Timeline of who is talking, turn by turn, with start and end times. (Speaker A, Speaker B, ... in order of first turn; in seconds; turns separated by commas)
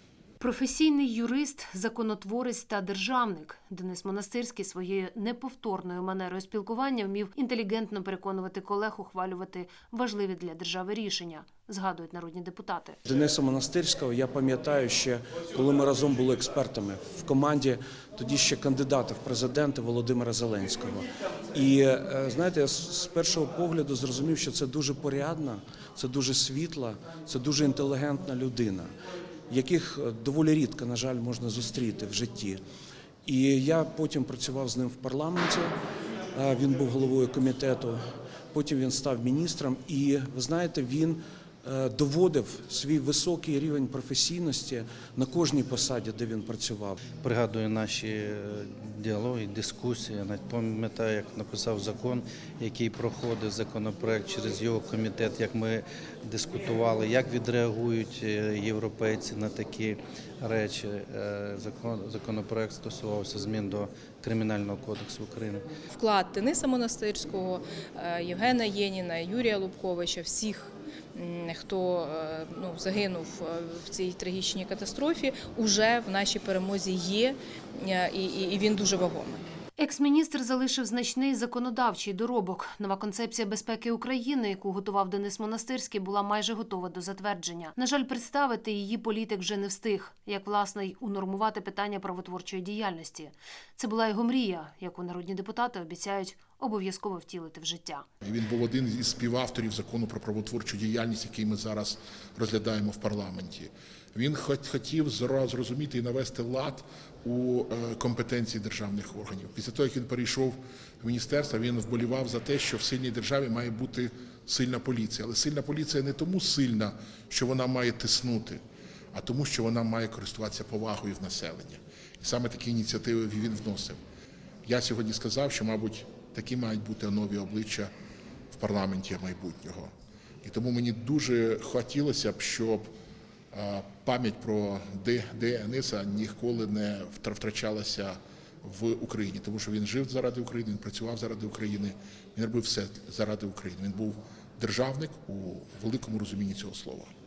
Speaker A: 0.4-13.0, Speaker B: 13.1-28.9, Speaker B: 29.5-32.6, Speaker B: 33.2-35.8, Speaker B: 36.3-38.0, Speaker B: 38.5-47.0, Speaker C: 47.1-65.6, Speaker D: 65.9-79.4, Speaker A: 79.8-98.0, Speaker E: 98.2-118.6, Speaker E: 119.1-124.0, Speaker E: 124.7-127.9, Speaker E: 128.5-129.9, Speaker E: 130.4-132.8, Speaker E: 133.5-147.1